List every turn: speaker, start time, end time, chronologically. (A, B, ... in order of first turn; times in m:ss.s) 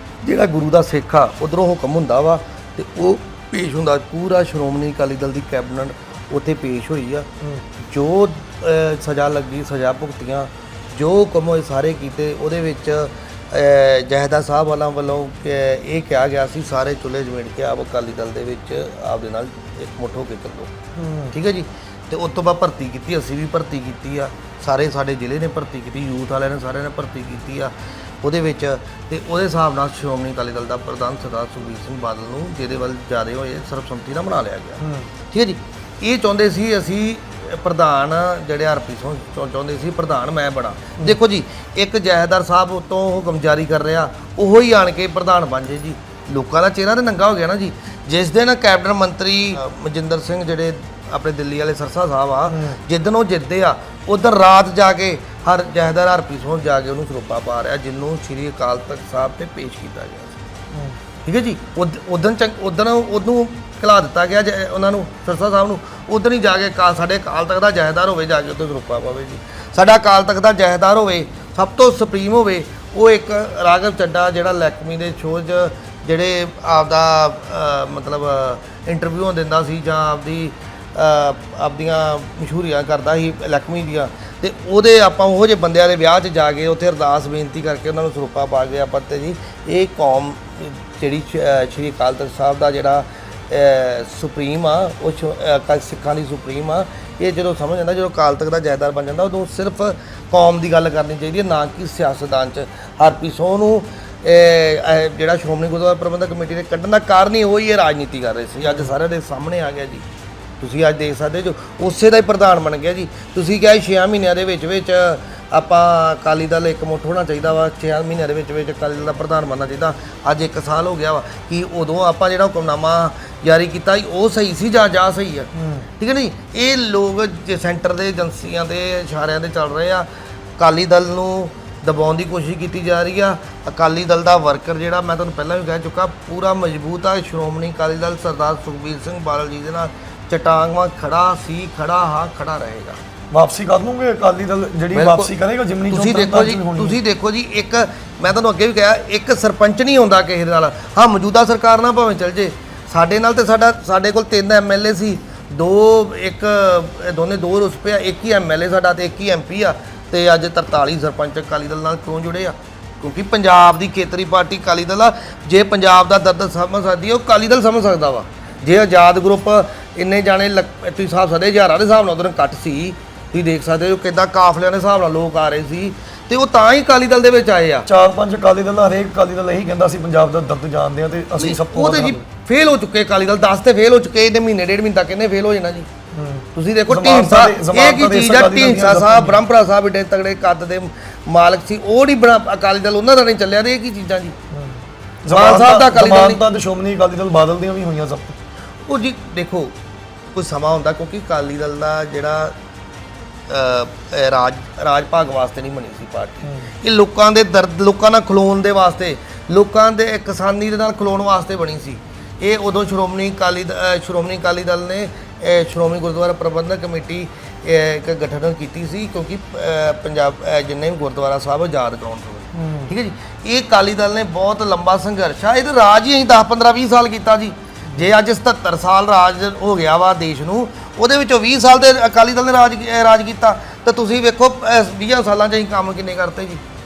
0:00.2-0:07.3 A
0:07.8-0:20.7 A
0:21.0-0:21.3 B
0:21.3-1:00.4 A
0:34.8-0:35.1 B
0:52.5-0:52.8 B
1:00.7-1:01.0 B
1:01.2-1:50.0 A
1:48.6-1:48.9 B
1:50.6-2:05.5 A
2:05.5-2:05.9 B
2:06.0-2:10.1 A
2:10.6-2:23.0 A
2:23.3-2:27.0 B
2:24.9-2:25.3 A
2:25.9-2:57.9 A
2:57.8-3:02.2 B
3:01.4-3:05.9 A
3:06.1-3:09.4 B
3:06.5-3:14.3 A
3:14.5-3:18.4 B
3:15.3-3:16.4 A
3:18.9-3:19.7 A
3:20.3-3:22.5 A
3:23.5-3:56.6 A
3:26.4-3:26.7 B
3:42.5-3:42.9 B